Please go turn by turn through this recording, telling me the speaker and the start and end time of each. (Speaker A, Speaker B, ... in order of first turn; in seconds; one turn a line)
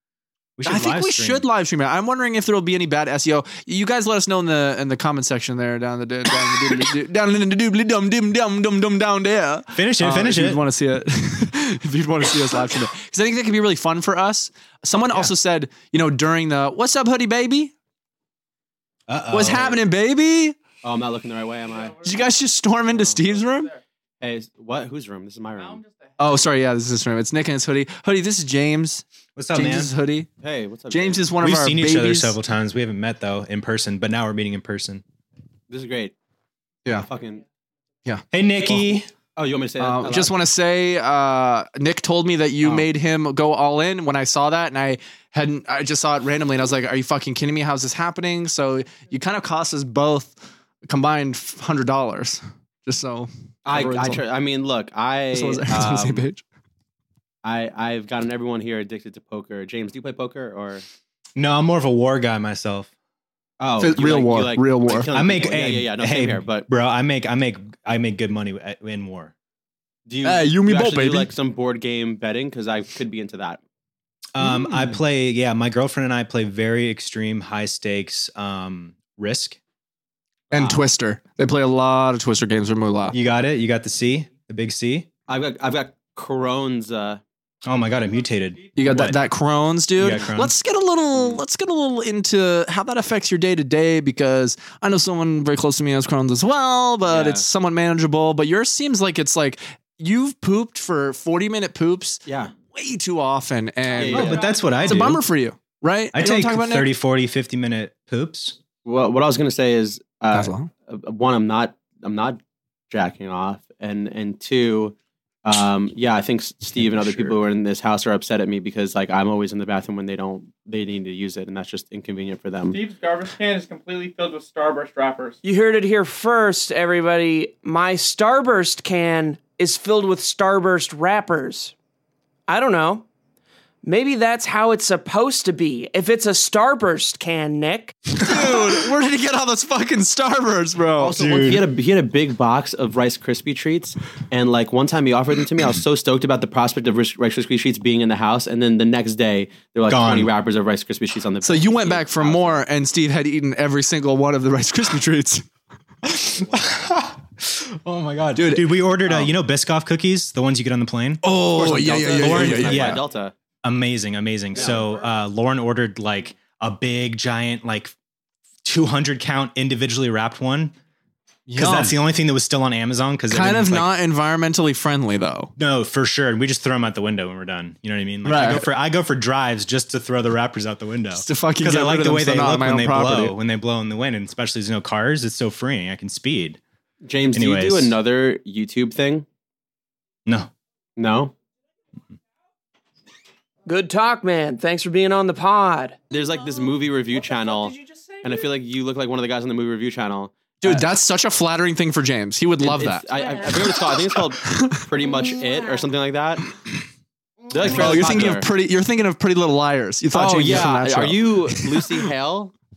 Speaker A: 0.6-1.4
Speaker B: 0.7-17.7
Speaker A: 9.8-10.6
Speaker A: 19.1-19.8
Speaker B: 19.3-20.6
Speaker C: 20.8-22.1
Speaker B: 22.0-23.7
Speaker C: 24.2-25.8
Speaker B: 26.2-30.3
Speaker A: 29.4-29.9
Speaker C: 30.4-31.3
Speaker B: 30.9-32.4
Speaker A: 31.4-35.0
Speaker C: 35.7-36.1
Speaker C: 36.9-37.4
Speaker A: 38.3-39.1
Speaker C: 39.4-40.3
Speaker B: 39.8-54.2
Speaker C: 53.7-56.3
Speaker B: 55.3-56.4
Speaker C: 57.4-60.8
Speaker A: 61.4-62.9
Speaker C: 63.6-66.7
Speaker B: 63.8-65.1
Speaker A: 65.1-69.3
Speaker C: 70.1-73.6
Speaker B: 70.2-71.3
Speaker A: 74.3-79.6
Speaker B: 74.4-75.0
Speaker B: 80.5-83.2
Speaker C: 80.5-80.8
Speaker A: 83.1-85.1
Speaker C: 85.3-87.2
Speaker A: 87.7-89.2
Speaker B: 88.8-106.9
Speaker A: 90.0-90.5
Speaker C: 97.1-97.5
Speaker C: 102.3-102.5
Speaker C: 104.0-104.5
Speaker A: 104.1-105.2
Speaker A: 106.1-108.6
Speaker C: 108.8-122.8
Speaker B: 110.3-110.7
Speaker A: 116.8-117.4
Speaker D: 122.7-125.4
Speaker E: 125.4-131.7
Speaker E: 132.5-133.1
Speaker E: 133.8-137.9
Speaker B: 138.2-141.2
Speaker C: 141.0-152.6
Speaker A: 141.2-141.7
Speaker A: 149.9-150.3
Speaker B: 151.4-155.4
Speaker A: 156.0-161.2
Speaker B: 158.3-159.3
Speaker B: 161.2-163.0
Speaker C: 161.6-163.3
Speaker A: 162.1-163.0
Speaker A: 163.6-167.9
Speaker C: 164.6-164.8
Speaker A: 168.7-170.7
Speaker B: 171.5-172.0
Speaker A: 171.6-173.9
Speaker B: 173.3-175.5
Speaker A: 175.6-186.6
Speaker B: 178.2-178.7
Speaker B: 181.2-183.3
Speaker C: 187.0-189.3
Speaker A: 187.3-188.0
Speaker C: 191.0-191.3
Speaker E: 193.7-196.0
Speaker C: 196.1-200.9
Speaker E: 197.3-198.5
Speaker B: 200.6-203.1
Speaker C: 202.6-206.5
Speaker E: 203.2-203.7
Speaker B: 203.6-204.8
Speaker E: 205.4-205.8
Speaker E: 207.5-208.3
Speaker C: 207.5-208.5
Speaker B: 207.6-212.1
Speaker C: 210.1-212.5